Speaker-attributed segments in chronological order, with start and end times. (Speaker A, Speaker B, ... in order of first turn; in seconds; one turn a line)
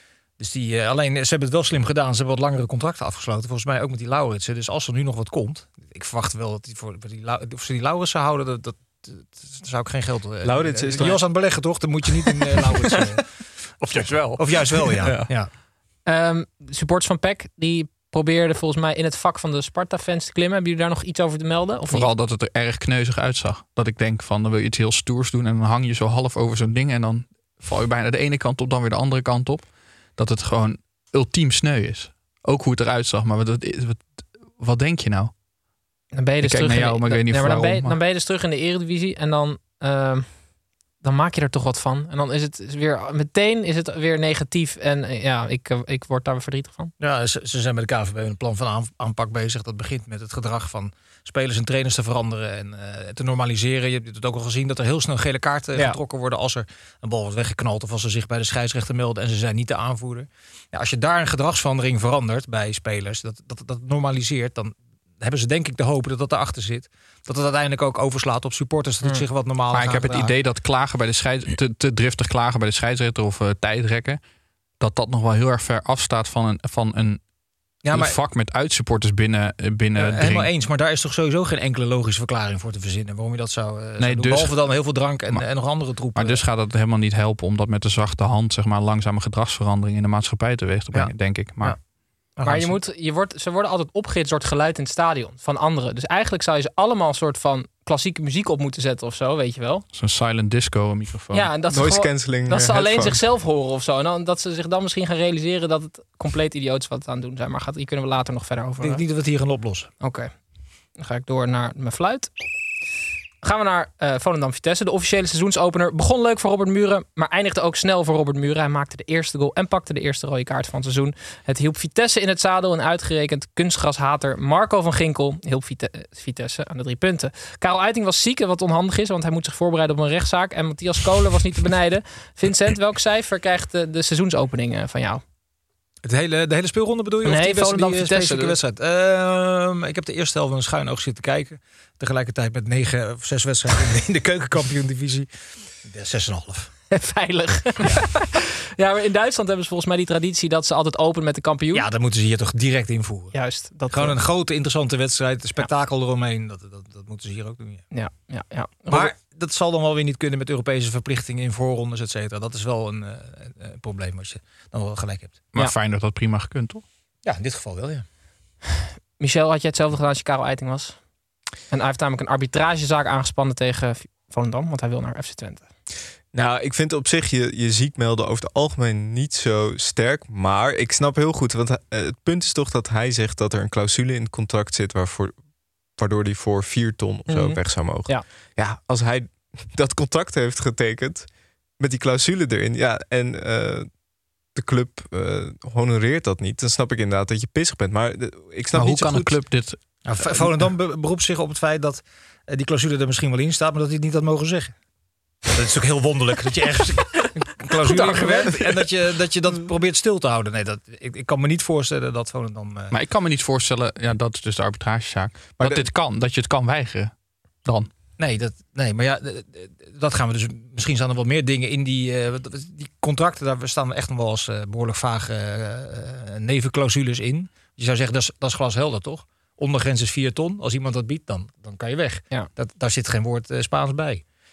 Speaker A: 0.4-13.3
Speaker B: 10.4-11.5
Speaker C: 13.8-15.3
Speaker A: 14.0-15.5
Speaker D: 16.1-22.1
Speaker C: 21.9-35.4
Speaker D: 36.1-40.4
Speaker C: 36.4-38.0
Speaker D: 41.0-46.9
Speaker A: 47.0-70.3
Speaker C: 69.7-74.2
Speaker C: 74.8-77.2
Speaker C: 77.8-80.5
Speaker A: 77.8-78.2
Speaker A: 80.0-86.4
Speaker C: 84.0-91.8
Speaker A: 90.9-91.8
Speaker A: 92.3-92.8
Speaker D: 92.4-99.8
Speaker C: 99.9-101.5
Speaker D: 101.3-109.0
Speaker B: 101.7-103.2
Speaker A: 108.8-109.9
Speaker D: 110.0-110.3
Speaker D: 111.0-112.3
Speaker D: 113.4-135.2
Speaker A: 136.0-145.3
Speaker D: 137.2-138.6
Speaker A: 145.8-146.7
Speaker D: 146.9-151.8
Speaker A: 151.7-153.4
Speaker D: 153.3-154.2
Speaker A: 153.9-157.8
Speaker D: 157.9-159.1
Speaker A: 158.9-165.4
Speaker C: 165.5-166.8
Speaker A: 167.2-168.1
Speaker D: 169.2-171.0
Speaker D: 171.7-175.7
Speaker B: 176.3-194.0
Speaker D: 187.3-188.2
Speaker B: 194.5-199.4
Speaker C: 198.7-200.5
Speaker A: 200.0-204.8
Speaker A: 205.5-212.9
Speaker C: 207.9-208.4
Speaker D: 208.1-208.4
Speaker C: 212.9-217.1
Speaker B: 215.6-215.9
Speaker C: 217.6-217.9
Speaker A: 218.2-234.2